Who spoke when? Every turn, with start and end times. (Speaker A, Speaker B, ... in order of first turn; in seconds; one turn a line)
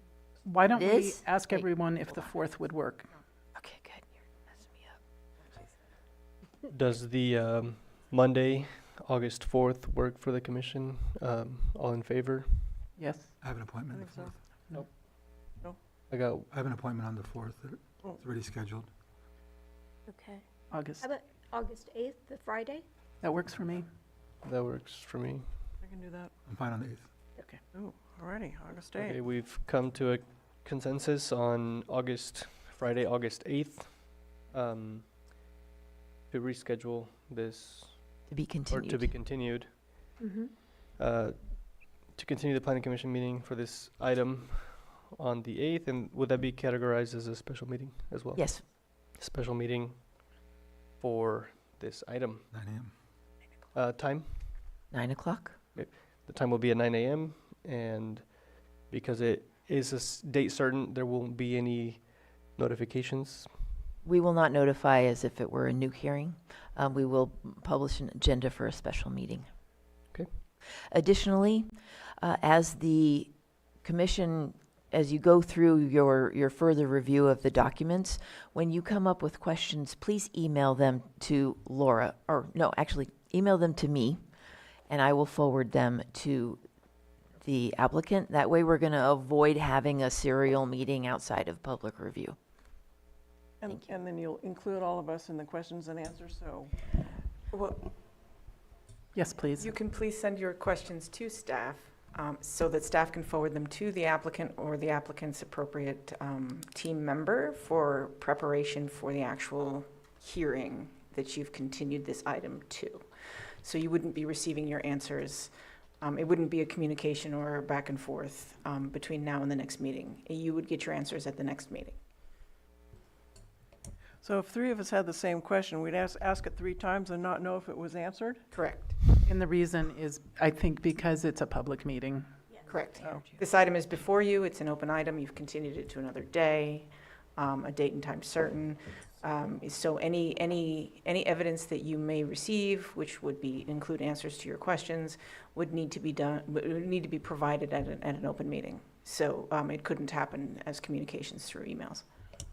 Speaker A: 0.4-3.1
Speaker B: 0.7-2.2
Speaker B: 3.5-4.9
Speaker C: 6.7-12.8
Speaker A: 13.0-13.3
Speaker D: 13.4-14.3
Speaker E: 13.9-14.3
Speaker C: 16.1-16.5
Speaker D: 16.5-18.9
Speaker F: 20.1-20.4
Speaker A: 20.7-21.1
Speaker F: 21.0-22.8
Speaker A: 23.2-23.9
Speaker C: 24.4-25.5
Speaker E: 25.8-26.3
Speaker D: 26.5-27.1
Speaker E: 27.7-29.2
Speaker C: 28.9-35.1
Speaker C: 36.3-40.1
Speaker B: 38.3-39.1
Speaker F: 40.2-40.5
Speaker C: 41.0-50.1
Speaker B: 48.4-48.6
Speaker C: 51.0-52.5
Speaker D: 52.5-53.0
Speaker C: 53.7-54.6
Speaker B: 54.9-55.6
Speaker C: 55.7-63.7
Speaker B: 64.0-69.5
Speaker B: 70.9-73.3
Speaker B: 73.8-84.2
Speaker B: 84.9-86.6
Speaker B: 87.4-92.3
Speaker E: 93.6-96.7
Speaker G: 97.5-97.9
Speaker A: 99.1-99.8
Speaker G: 99.6-113.0
Speaker G: 113.6-122.0
Speaker E: 124.2-128.5
Speaker G: 128.5-128.9
Speaker A: 129.2-132.3
Speaker G: 132.7-152.0
Speaker E: 133.0-133.4